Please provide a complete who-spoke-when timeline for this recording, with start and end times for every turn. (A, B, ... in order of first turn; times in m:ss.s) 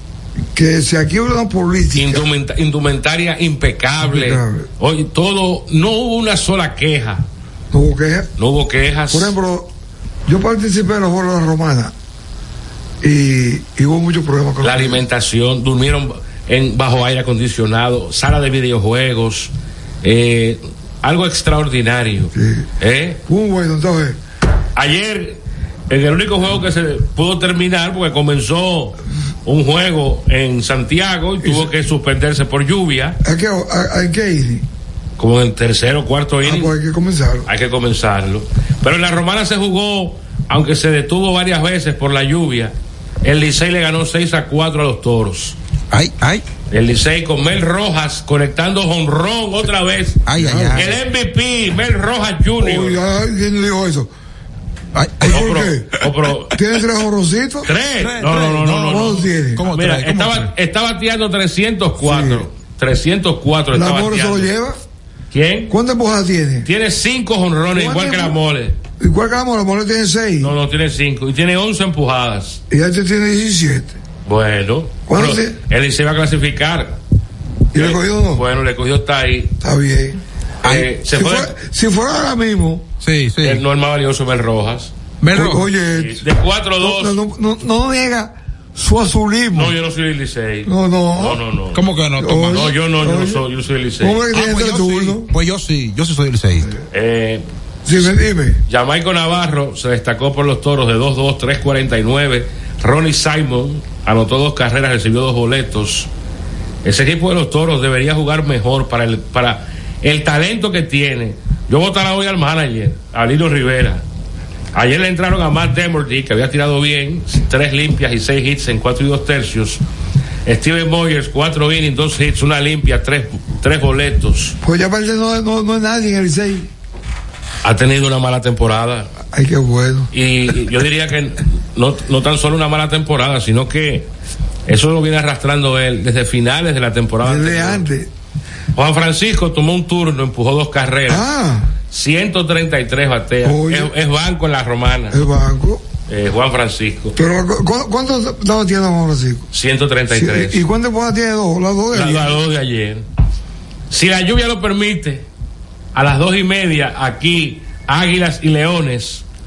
0:00.5-0:02.3 A
0:02.0-0:07.2 B
0:04.0-0:04.7 A
0:07.7-0:08.3 A
0:08.4-0:09.4 B
0:09.1-0:09.7 A
0:10.3-0:11.9 A
0:13.0-0:15.0 A
0:14.6-0:19.5 B
0:20.0-0:23.2 B
0:22.3-0:22.7 A
0:23.3-0:24.2 A
0:24.8-0:33.2 B
0:31.4-0:31.7 A
0:33.2-0:34.7 A
0:35.2-0:36.8 B
0:36.4-0:37.5 A
0:37.5-0:45.6 B
0:45.9-0:46.4 C
0:46.7-0:50.2 B
0:50.3-0:50.9 C
0:50.3-0:51.0 A
0:50.7-0:53.0 B
0:52.6-0:54.1 A
0:55.0-0:55.5 C
0:55.2-0:57.7 A
0:55.3-0:56.6 B
0:57.6-1:04.5 B
0:58.0-1:00.5 C
0:58.6-0:59.6 A
1:02.0-1:02.5 A
1:03.7-1:04.8 A
1:05.3-1:05.7 B
1:05.7-1:06.7 A
1:06.6-1:08.8 B
1:07.7-1:08.4 A
1:09.0-1:10.5 A
1:10.4-1:12.6 B
1:12.7-1:14.0 A
1:14.3-1:17.0 B
1:15.1-1:15.6 A
1:17.7-1:18.4 A
1:17.7-1:19.5 B
1:19.6-1:20.2 A
1:20.6-1:20.9 C
1:20.6-1:21.5 B
1:21.1-1:22.9 A
1:23.0-1:23.6 C
1:23.4-1:24.9 B
1:25.2-1:25.7 C
1:25.3-1:26.2 A
1:25.9-1:27.2 B
1:26.8-1:29.8 A
1:29.6-1:31.8 B
1:30.6-1:31.4 A
1:31.7-1:32.7 C
1:32.2-1:33.4 A
1:32.5-1:34.2 B
1:34.0-1:35.3 A
1:34.3-1:36.7 C
1:36.9-1:37.4 B
1:37.8-1:38.6 A
1:38.7-1:46.1 B
1:46.8-1:54.0 B
1:54.7-1:59.8 B
2:00.5-2:04.6 B
2:04.6-2:06.7 A
2:07.6-2:09.1 B
2:09.3-2:10.1 A
2:10.1-2:14.1 B
2:14.7-2:17.8 B
2:17.2-2:18.1 A
2:18.8-2:21.3 B
2:21.1-2:21.7 A
2:21.9-2:25.2 B
2:23.4-2:23.9 A
2:25.1-2:25.8 A
2:26.1-2:27.2 B
2:27.2-2:29.5 A
2:29.5-2:30.6 B
2:30.1-2:32.4 A
2:31.9-2:33.0 B
2:33.9-2:35.3 B
2:35.9-2:39.2 B